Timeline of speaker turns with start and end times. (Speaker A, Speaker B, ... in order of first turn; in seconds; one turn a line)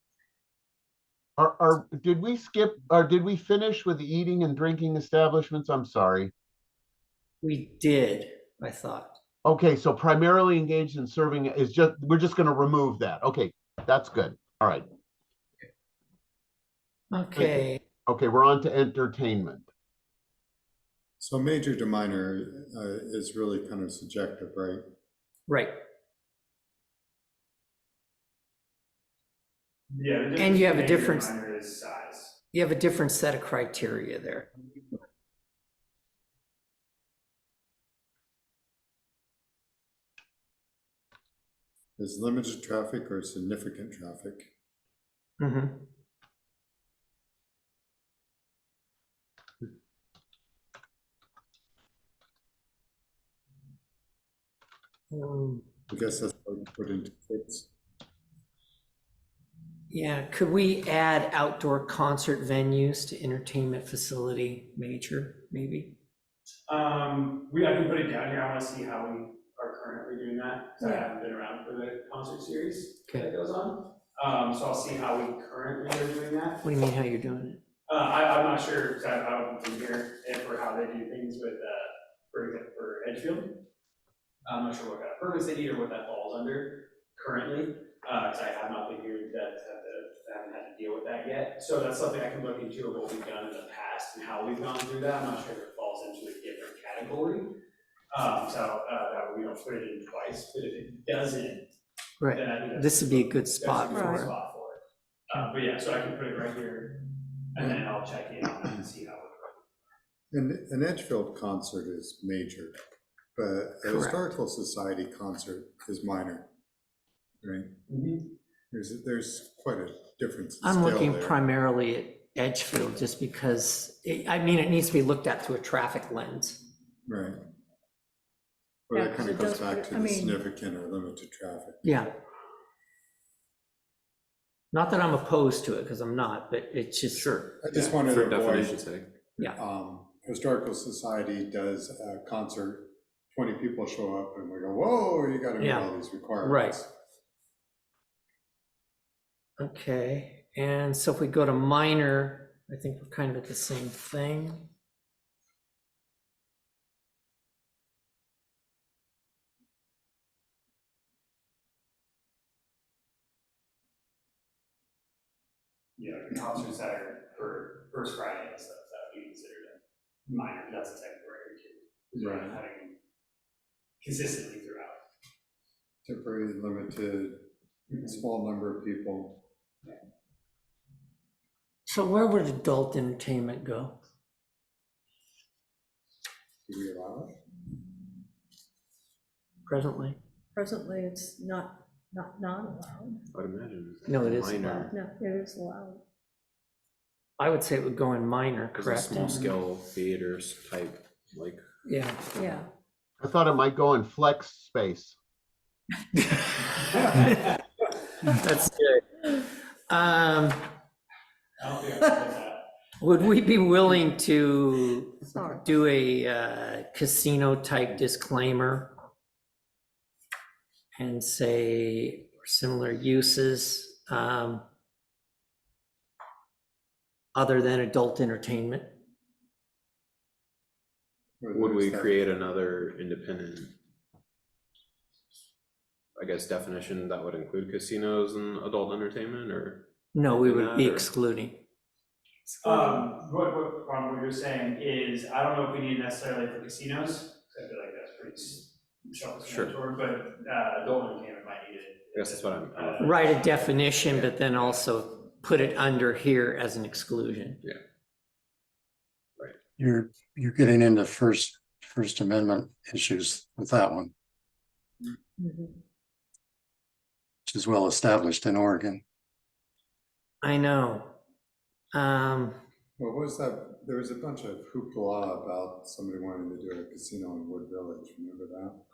Speaker A: 1.4-6.3
Speaker B: 7.4-9.2
Speaker A: 9.4-14.9
Speaker B: 17.1-17.8
Speaker A: 17.4-19.7
Speaker C: 21.2-24.9
Speaker B: 25.5-25.8
Speaker D: 29.9-32.4
Speaker B: 30.4-31.3
Speaker B: 32.5-34.5
Speaker C: 42.0-44.5
Speaker B: 45.4-45.8
Speaker B: 55.1-55.6
Speaker C: 55.9-57.7
Speaker B: 59.9-66.0
Speaker D: 66.7-76.6
Speaker B: 76.6-77.6
Speaker D: 77.9-83.6
Speaker D: 84.5-97.5
Speaker D: 98.1-101.7
Speaker B: 102.2-104.3
Speaker D: 102.3-107.0
Speaker E: 103.9-104.3
Speaker D: 107.5-109.6
Speaker C: 110.3-112.8
Speaker C: 113.3-116.5
Speaker B: 113.8-114.3
Speaker C: 117.4-117.7
Speaker D: 117.9-118.3
Speaker C: 118.7-121.4
Speaker B: 120.6-126.6
Speaker C: 127.1-127.4
Speaker C: 128.9-131.8
Speaker E: 128.9-130.4
Speaker B: 131.8-132.1
Speaker B: 134.7-137.3
Speaker F: 137.1-139.1
Speaker C: 137.6-138.8
Speaker C: 139.4-146.9
Speaker B: 145.6-146.8
Speaker B: 149.6-154.7
Speaker D: 166.0-173.0
Speaker C: 172.2-172.6
Speaker D: 174.0-175.0
Speaker C: 176.1-179.4
Speaker B: 181.9-184.0
Speaker C: 186.7-187.3
Speaker B: 189.7-190.2
Speaker E: 190.6-193.2
Speaker F: 193.3-194.9
Speaker B: 194.1-194.9
Speaker E: 194.9-196.0
Speaker B: 197.4-199.4
Speaker F: 198.8-201.6
Speaker B: 201.8-202.2
Speaker E: 202.4-202.7
Speaker A: 203.2-205.2
Speaker B: 206.2-207.3
Speaker D: 207.1-207.3
Speaker B: 208.3-210.7
Speaker D: 211.6-212.6
Speaker B: 213.0-218.9
Speaker E: 215.3-215.6
Speaker B: 221.0-224.7
Speaker B: 227.3-228.9
Speaker C: 231.4-232.2
Speaker F: 231.5-233.8
Speaker F: 236.2-241.1
Speaker B: 240.1-241.6
Speaker D: 242.6-254.8
Speaker E: 242.7-243.0
Speaker F: 249.4-249.8
Speaker F: 252.1-253.6
Speaker B: 253.0-257.6
Speaker G: 259.8-264.1
Speaker E: 265.4-265.7
Speaker G: 267.5-269.0
Speaker B: 270.4-271.1
Speaker B: 271.9-272.6
Speaker C: 273.0-278.8